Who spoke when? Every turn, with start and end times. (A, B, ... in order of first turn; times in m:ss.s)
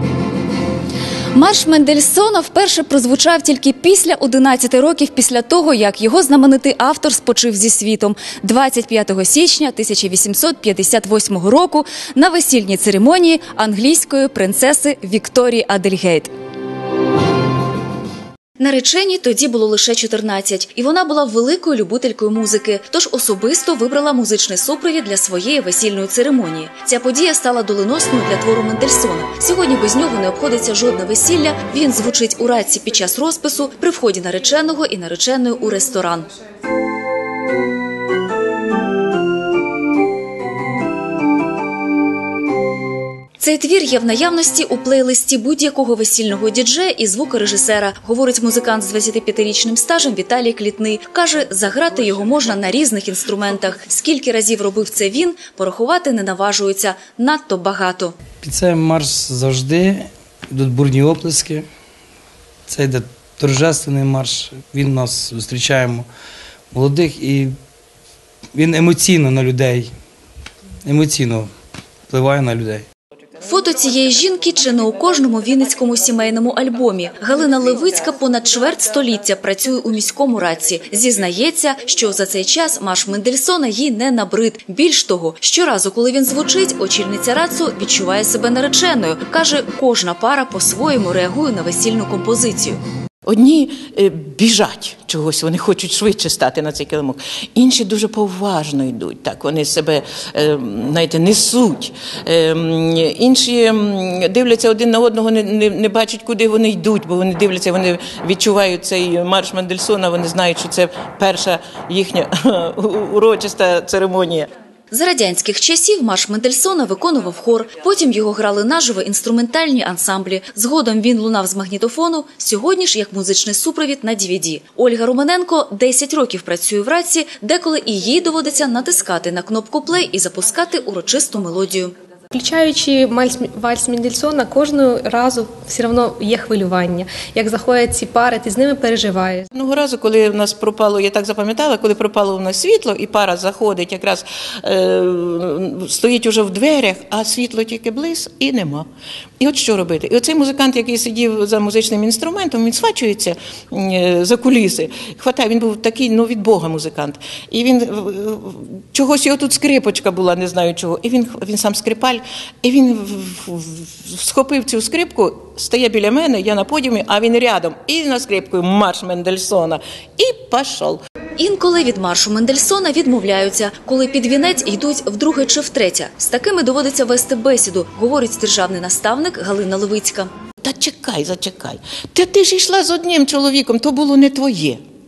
0:01.3-0:16.3 A
0:18.6-0:36.3 A
0:43.4-0:58.2 A
0:58.4-1:01.7 B
1:02.7-1:06.1 B
1:06.7-1:07.6 B
1:08.5-1:09.9 B
1:10.8-1:11.5 B
1:12.1-1:12.9 B
1:13.4-1:32.8 A
1:33.3-1:54.5 C
1:54.9-2:11.9 A
2:12.3-2:19.5 D
2:19.5-2:28.9 C
2:29.4-2:51.0 C
2:51.4-3:00.3 A
3:00.6-3:04.8 C